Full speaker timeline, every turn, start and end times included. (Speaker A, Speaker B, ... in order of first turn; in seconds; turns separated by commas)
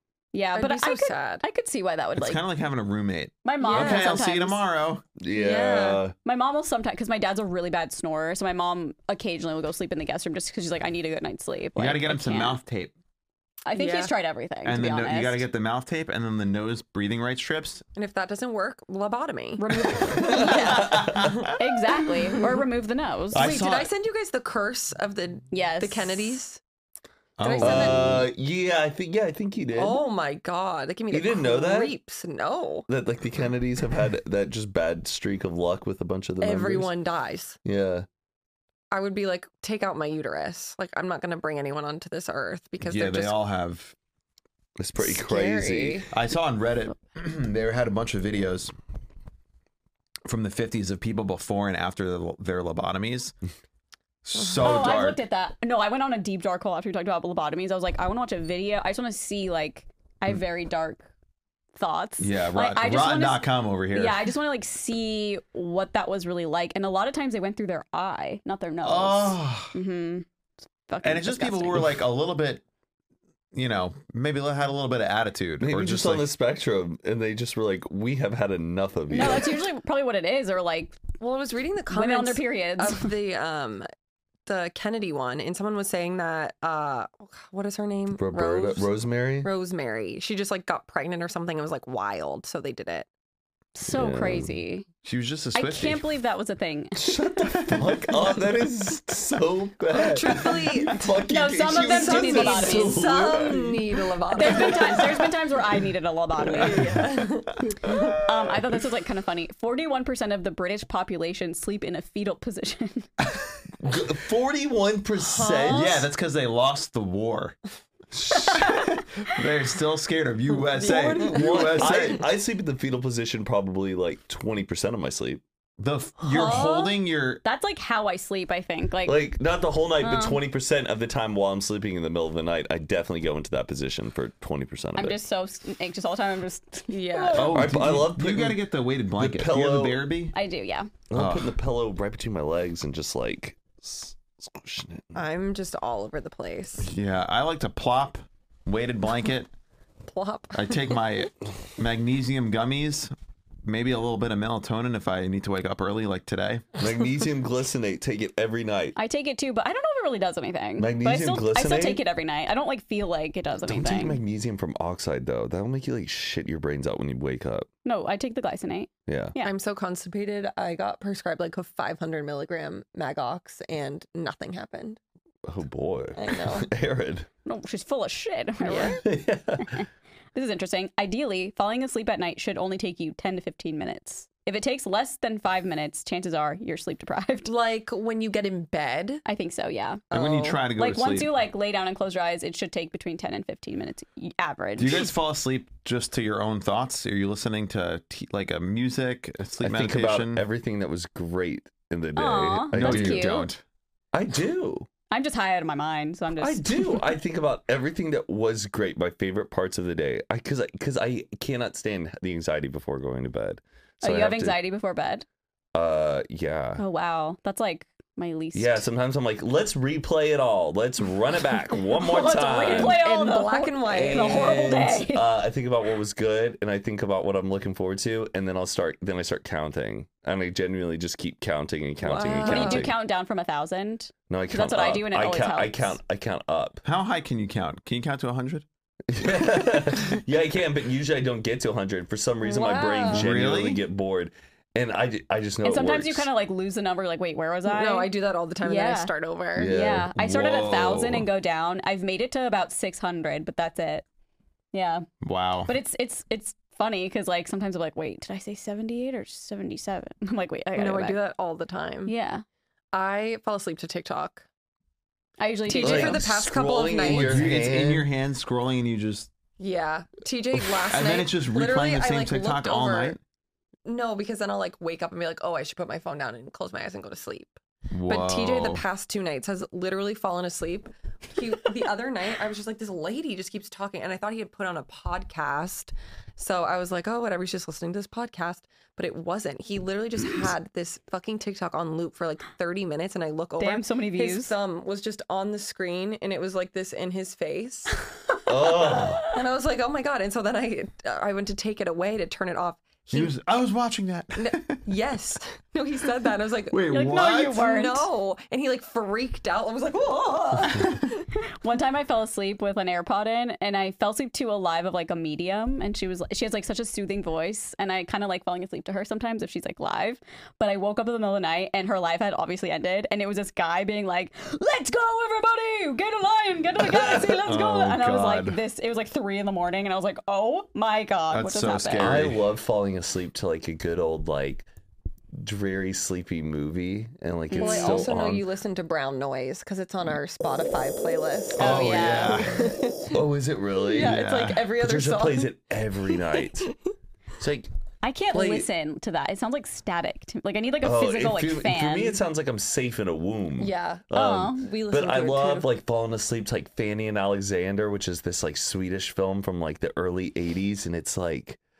Speaker A: 0.3-2.4, Speaker B: 0.5-1.4, Speaker C: 2.1-5.0, Speaker A: 3.4-4.6, Speaker B: 3.6-4.2, Speaker D: 5.2-6.2, Speaker B: 5.3-6.0, Speaker A: 6.2-12.6, Speaker C: 11.8-12.9, Speaker A: 13.7-15.4, Speaker B: 13.7-14.1, Speaker C: 14.6-17.8, Speaker B: 17.9-21.6, Speaker A: 19.6-21.0, Speaker C: 19.9-21.6, Speaker D: 20.7-21.3, Speaker A: 21.5-23.4, Speaker C: 23.3-23.9, Speaker B: 23.3-26.6, Speaker A: 25.5-26.4, Speaker C: 27.4-28.2, Speaker B: 27.4-28.2, Speaker D: 27.6-30.0, Speaker B: 29.7-32.9, Speaker D: 31.1-31.9, Speaker D: 32.9-36.9, Speaker B: 36.4-37.6, Speaker D: 37.6-38.1, Speaker B: 38.9-43.4, Speaker C: 42.8-43.9, Speaker D: 44.8-46.0, Speaker B: 45.0-46.0, Speaker C: 46.1-48.7, Speaker C: 50.2-53.3, Speaker C: 54.2-55.2, Speaker A: 54.6-61.1, Speaker A: 61.7-70.2, Speaker C: 62.2-64.3, Speaker C: 68.8-69.8, Speaker A: 70.9-71.9, Speaker C: 71.0-72.6, Speaker C: 73.5-76.3, Speaker D: 75.6-79.6, Speaker A: 79.1-81.0, Speaker B: 81.2-83.9, Speaker A: 81.9-83.1, Speaker B: 84.5-93.1, Speaker D: 88.1-89.5, Speaker A: 93.8-94.9, Speaker D: 93.9-94.5, Speaker C: 95.0-96.0, Speaker A: 95.5-97.3, Speaker D: 97.0-103.9, Speaker C: 97.5-98.3, Speaker B: 99.9-101.1, Speaker A: 101.3-103.3, Speaker B: 101.8-105.2, Speaker A: 104.3-107.1, Speaker B: 106.6-108.1, Speaker C: 107.7-108.6, Speaker A: 108.1-113.1, Speaker C: 113.2-113.5, Speaker D: 113.8-116.0, Speaker B: 115.2-116.0, Speaker C: 115.7-117.5, Speaker C: 118.2-122.2, Speaker A: 118.5-118.8, Speaker B: 120.7-122.2, Speaker D: 121.2-125.4, Speaker C: 125.8-127.4, Speaker B: 126.2-127.0, Speaker A: 127.4-129.3, Speaker D: 129.0-135.2, Speaker A: 130.0-130.4, Speaker A: 134.9-137.7, Speaker B: 136.9-137.5, Speaker C: 137.3-140.3, Speaker D: 137.3-138.6, Speaker D: 139.1-140.0, Speaker A: 140.3-140.9, Speaker D: 141.1-145.2, Speaker C: 141.1-141.6, Speaker B: 145.1-146.9, Speaker C: 146.8-149.5, Speaker B: 150.1-150.8, Speaker C: 150.5-153.1, Speaker C: 153.6-156.7, Speaker D: 156.8-158.9, Speaker A: 158.9-164.2, Speaker D: 160.8-162.0, Speaker D: 163.6-167.7, Speaker A: 167.8-169.5, Speaker D: 169.1-169.3, Speaker B: 169.4-175.0, Speaker D: 175.4-177.3, Speaker B: 176.1-176.7, Speaker A: 177.4-187.5, Speaker B: 178.6-179.0, Speaker D: 179.0-179.8, Speaker B: 187.4-189.2, Speaker A: 189.2-190.0, Speaker B: 190.1-190.6, Speaker C: 190.1-191.3, Speaker A: 190.8-195.1, Speaker C: 194.8-200.4, Speaker D: 199.6-203.3, Speaker A: 202.2-203.5, Speaker C: 202.7-203.6, Speaker D: 204.1-204.9, Speaker A: 205.1-207.2, Speaker D: 206.4-214.6, Speaker A: 214.0-215.2, Speaker D: 215.7-216.8, Speaker A: 216.8-218.8, Speaker D: 218.5-223.0, Speaker A: 222.0-225.4, Speaker B: 222.6-224.9, Speaker D: 223.9-232.9, Speaker B: 232.0-232.9, Speaker A: 232.1-236.0, Speaker D: 234.3-236.8, Speaker C: 236.8-238.6, Speaker D: 239.1-246.2, Speaker B: 242.4-243.3, Speaker C: 243.1-243.8, Speaker A: 245.6-254.0, Speaker B: 247.7-249.7, Speaker D: 249.6-250.7, Speaker C: 250.2-251.3, Speaker A: 254.7-255.1, Speaker C: 255.2-255.7, Speaker A: 255.7-261.2, Speaker B: 260.7-262.1, Speaker A: 262.0-262.4, Speaker B: 262.9-264.4, Speaker A: 265.4-266.2, Speaker B: 265.6-267.5, Speaker D: 265.7-268.1, Speaker C: 267.0-269.3, Speaker B: 269.6-273.1, Speaker C: 270.9-273.2, Speaker B: 273.9-297.9, Speaker C: 277.9-278.8, Speaker A: 293.6-294.5, Speaker D: 298.5-299.2, Speaker A: 298.6-299.2, Speaker B: 299.2-303.3, Speaker C: 303.1-304.8, Speaker B: 304.4-311.0, Speaker C: 306.7-307.6, Speaker A: 306.9-308.1, Speaker A: 311.4-332.2, Speaker D: 326.8-327.5, Speaker C: 327.4-328.6, Speaker C: 331.3-332.5, Speaker D: 332.0-334.6, Speaker D: 335.4-338.5, Speaker A: 337.5-338.1, Speaker B: 337.5-343.2, Speaker A: 341.6-342.4, Speaker C: 341.6-342.7, Speaker D: 343.0-346.7, Speaker B: 343.9-345.6, Speaker C: 343.9-344.6, Speaker B: 346.1-346.7, Speaker D: 347.4-347.7, Speaker A: 348.0-352.2, Speaker D: 348.3-348.7, Speaker D: 350.8-361.6, Speaker B: 353.6-354.1, Speaker A: 354.1-354.6, Speaker B: 354.6-355.7